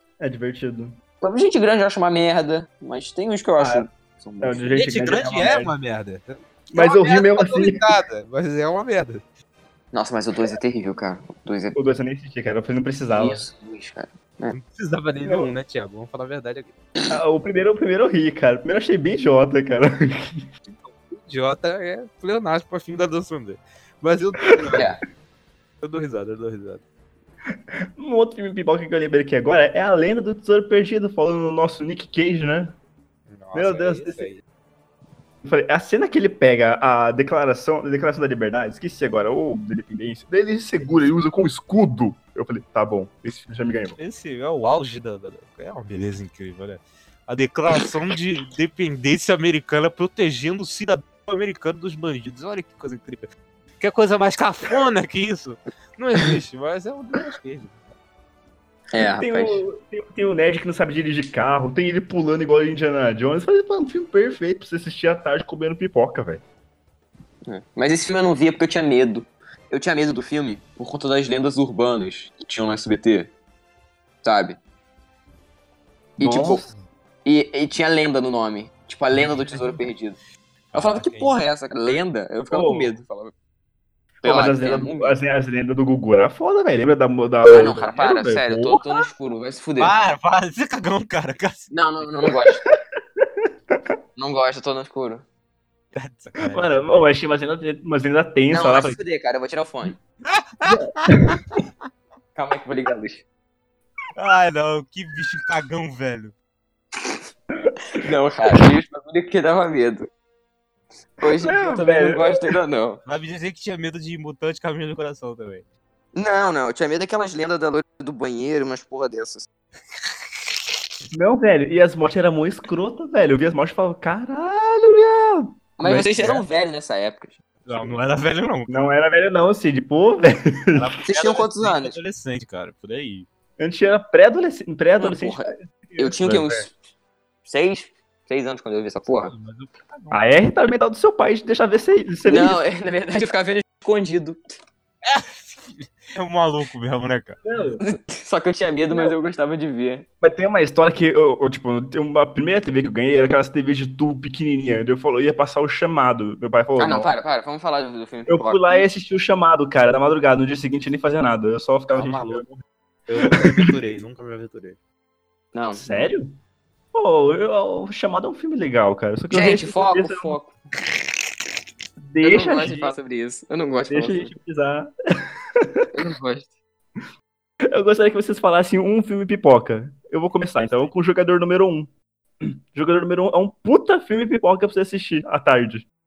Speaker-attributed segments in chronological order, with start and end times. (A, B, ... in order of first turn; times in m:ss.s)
0:00.2-0:01.0 A
0:01.2-0:04.8 B
0:03.6-0:03.9 A
0:04.4-0:05.7 A
0:04.7-0:09.2 C
0:06.7-0:08.0 A
0:09.9-0:11.8 B
0:11.7-0:13.4 A
0:13.1-0:14.6 B
0:14.5-0:16.7 C
0:15.2-0:15.5 A
0:17.1-0:20.4 A
0:20.7-0:25.0 C
0:24.5-0:24.8 A
0:24.7-0:25.0 B
0:25.8-0:26.8 C
0:28.0-0:32.8 A
0:33.3-0:34.4 C
0:33.5-0:34.3 A
0:35.4-0:44.0 A
0:44.0-0:53.2 C
0:53.8-0:57.8 C
0:58.9-0:59.6 B
0:59.0-1:06.4 A
1:07.4-1:13.3 B
1:14.2-1:14.6 B
1:16.2-1:16.6 B
1:16.2-1:16.6 A
1:17.2-1:20.2 B
1:19.1-1:19.8 C
1:20.7-1:21.4 C
1:20.7-1:23.3 B
1:22.5-1:22.9 A
1:24.2-1:25.2 B
1:24.2-1:29.0 A
1:27.4-1:29.9 B
1:29.8-1:32.1 C
1:31.7-1:32.6 B
1:33.2-1:33.8 A
1:34.2-1:35.2 B
1:35.9-1:37.0 C
1:36.4-1:39.0 A
1:38.5-1:40.0 B
1:40.2-1:41.4 C
1:40.7-1:41.4 A
1:42.3-1:43.2 B
1:44.1-1:46.3 C
1:48.0-1:50.1 B
1:51.2-1:53.0 B
1:51.3-1:52.5 A
1:53.0-1:55.6 C
1:56.1-1:59.5 B
2:01.1-2:06.4 A
2:05.8-2:07.9 B
2:07.6-2:08.8 C
2:08.7-2:10.9 A
2:10.7-2:13.2 C
2:11.0-2:12.0 B
2:13.6-2:16.6 A
2:15.0-2:16.7 B
2:17.4-2:19.3 B
2:19.1-2:20.2 C
2:20.1-2:22.6 A
2:22.3-2:24.6 B
2:25.0-2:27.4 C
2:27.4-2:27.8 A
2:27.8-2:30.1 B
2:28.9-2:29.2 A
2:30.2-2:37.1 A
2:36.8-2:38.8 B
2:38.3-2:42.5 A
2:41.9-2:42.4 C
2:43.1-2:44.8 C
2:43.2-2:43.7 A
2:45.5-2:46.1 B
2:45.8-2:46.3 A
2:46.9-2:50.4 A
2:49.3-2:50.5 B
2:52.0-2:52.9 A
2:52.2-2:54.3 B
2:53.9-2:54.9 A
2:55.6-2:55.9 A
2:55.9-2:56.5 B
2:57.7-3:01.9 A
3:02.4-3:05.8 A